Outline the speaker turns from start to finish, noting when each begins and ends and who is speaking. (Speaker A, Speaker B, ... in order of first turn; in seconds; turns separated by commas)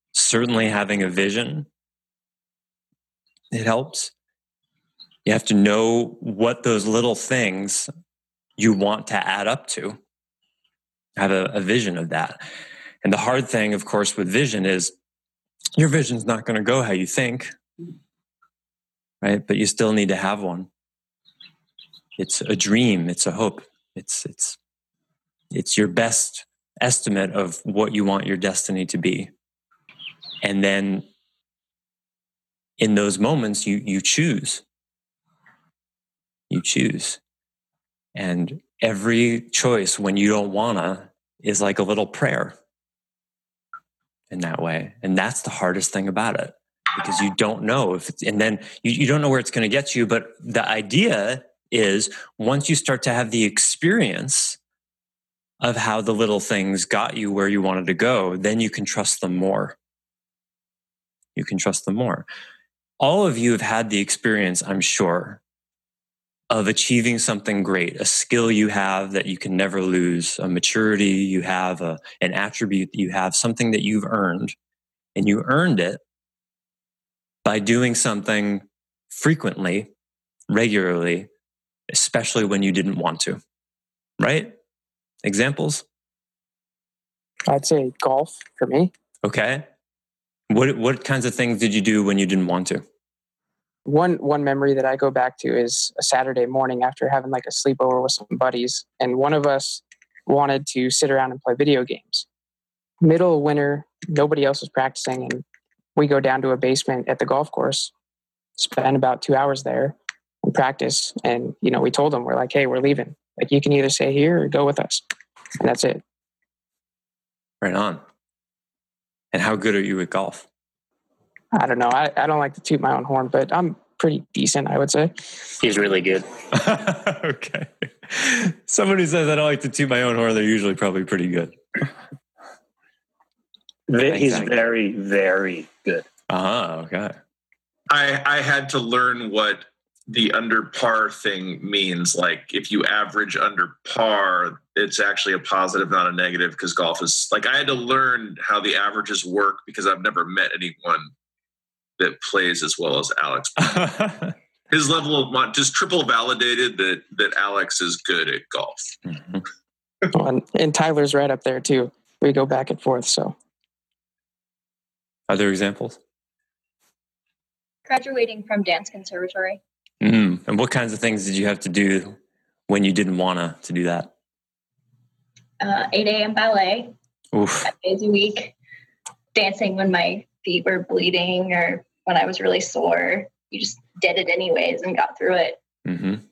Speaker A: 0.1-1.7, Speaker A: 3.5-4.1, Speaker A: 5.2-7.9, Speaker A: 8.6-10.0, Speaker A: 11.2-12.4, Speaker A: 13.0-14.9, Speaker A: 15.8-17.5, Speaker A: 19.2-20.7, Speaker A: 22.2-24.6, Speaker A: 25.5-29.3, Speaker A: 30.4-31.1, Speaker A: 32.8-34.6, Speaker A: 36.5-37.2, Speaker A: 38.1-42.5, Speaker A: 44.3-54.6, Speaker A: 55.6-59.8, Speaker A: 61.4-62.3, Speaker A: 63.0-65.4, Speaker A: 66.5-74.5, Speaker A: 75.2-76.0, Speaker A: 77.5-79.9, Speaker A: 80.5-81.3, Speaker A: 81.9-83.4, Speaker A: 84.2-84.5, Speaker A: 85.2-85.8, Speaker B: 87.5-88.9, Speaker A: 89.2-89.7, Speaker A: 90.5-92.8, Speaker B: 93.9-102.3, Speaker B: 103.0-105.4, Speaker B: 106.0-107.9, Speaker B: 108.6-115.0, Speaker B: 115.6-116.0, Speaker A: 117.6-118.0, Speaker A: 119.3-120.5, Speaker B: 121.5-125.1, Speaker C: 125.6-126.3, Speaker A: 126.5-131.8, Speaker C: 133.9-136.1, Speaker A: 134.1-134.6, Speaker A: 136.3-137.2, Speaker D: 137.9-151.1, Speaker D: 152.0-154.1, Speaker A: 153.8-154.3, Speaker D: 154.7-158.9, Speaker A: 159.1-159.4, Speaker B: 160.1-163.3, Speaker A: 165.3-166.0, Speaker E: 167.9-169.6, Speaker A: 170.0-172.2, Speaker A: 172.7-174.1, Speaker E: 175.6-176.9, Speaker A: 177.3-177.7, Speaker E: 177.6-178.5, Speaker E: 179.3-185.6, Speaker A: 185.9-186.2